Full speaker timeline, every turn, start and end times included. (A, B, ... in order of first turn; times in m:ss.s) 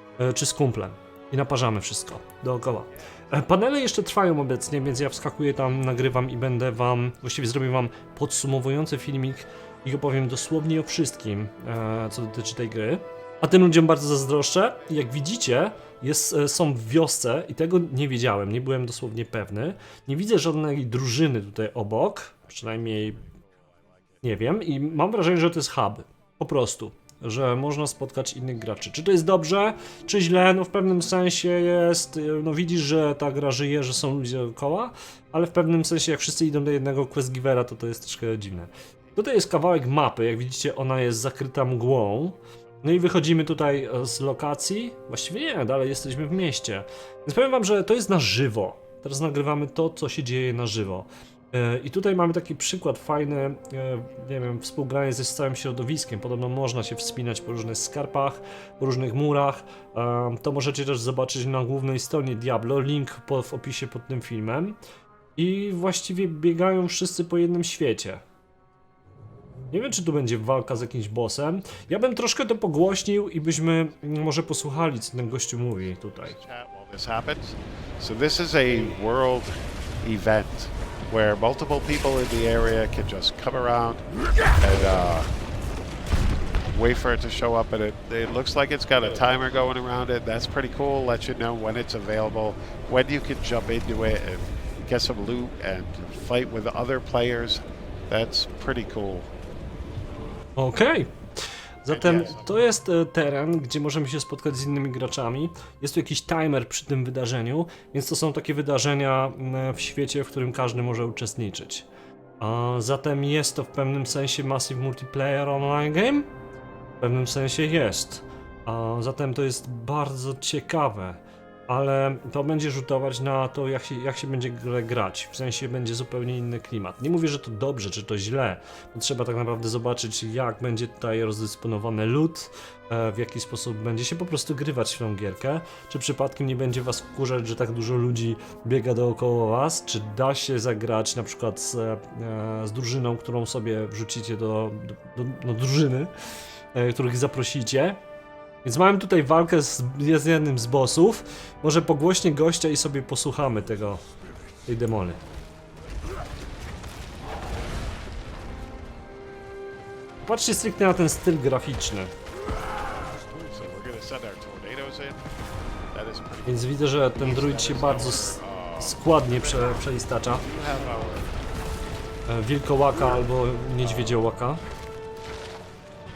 0:00.2-0:23.2 A
0:03.0-0:03.7 B
0:13.4-0:13.8 B
0:22.8-0:24.3 B
0:24.2-1:04.8 A
1:05.4-1:08.2 A
1:09.7-1:16.4 A
1:14.1-1:24.0 B
1:24.6-1:25.3 B
1:26.7-1:39.3 B
1:40.6-1:41.1 A
1:41.8-1:51.9 A
1:41.9-1:42.6 B
1:52.4-1:56.3 A
1:57.0-2:26.1 A
2:26.7-2:28.0 A
2:28.6-2:34.0 A
2:34.7-2:35.2 A
2:40.2-2:42.1 A
2:43.4-2:45.3 B
2:45.9-2:51.5 B
2:46.5-2:50.4 A
2:52.3-2:54.6 A
2:53.8-2:54.3 B